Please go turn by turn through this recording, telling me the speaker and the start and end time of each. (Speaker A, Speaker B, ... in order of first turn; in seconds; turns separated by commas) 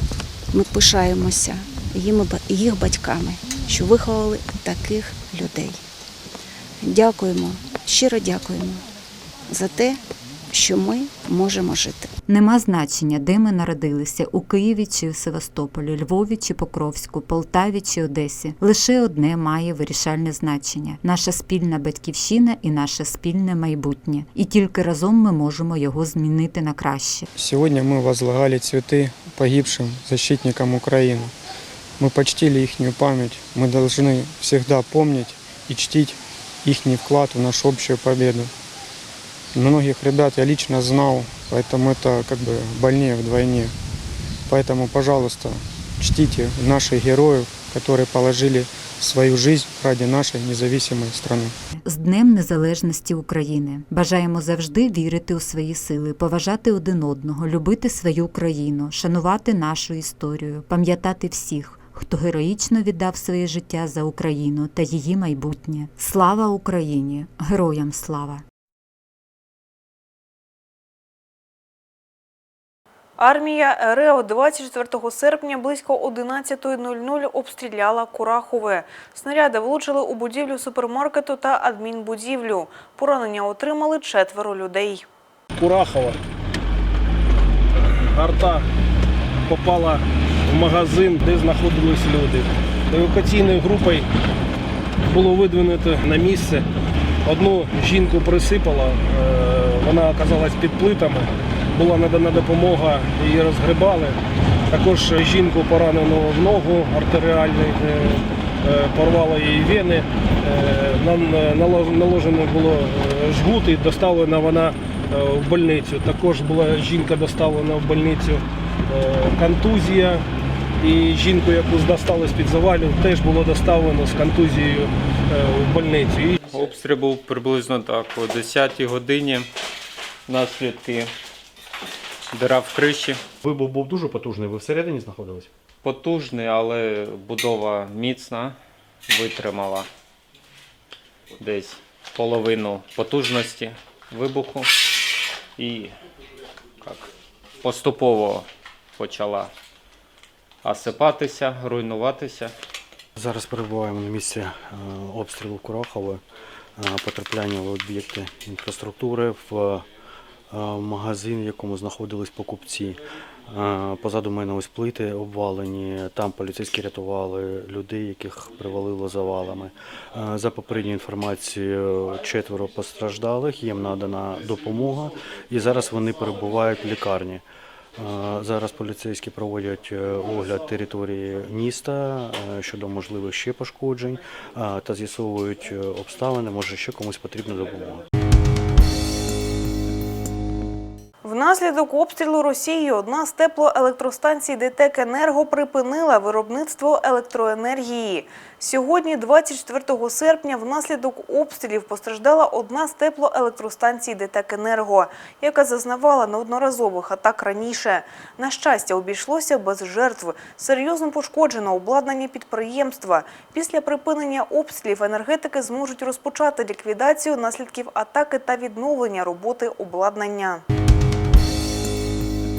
Speaker A: 0.5-5.8, Speaker A: 6.8-8.8, Speaker A: 9.5-10.0, Speaker A: 10.5-12.1, Speaker B: 12.3-27.3, Speaker C: 27.4-31.3, Speaker C: 32.0-38.5, Speaker C: 39.5-43.8, Speaker C: 44.5-51.5, Speaker B: 51.8-68.4, Speaker D: 73.2-85.0, Speaker E: 85.6-86.2, Speaker E: 87.8-88.7, Speaker E: 89.5-94.1, Speaker E: 95.1-96.7, Speaker E: 97.2-104.2, Speaker E: 104.7-120.2, Speaker E: 120.8-126.4, Speaker F: 126.5-129.5, Speaker F: 130.3-131.1, Speaker F: 132.3-133.2, Speaker G: 133.7-134.6, Speaker F: 135.8-138.6, Speaker F: 139.1-139.9, Speaker F: 141.4-144.7, Speaker F: 145.6-145.9, Speaker F: 146.8-147.1, Speaker F: 147.6-148.5, Speaker F: 149.0-149.5, Speaker F: 150.6-152.5, Speaker G: 153.2-156.2, Speaker G: 156.8-159.9, Speaker G: 160.5-177.4, Speaker G: 178.0-188.1, Speaker D: 191.2-220.6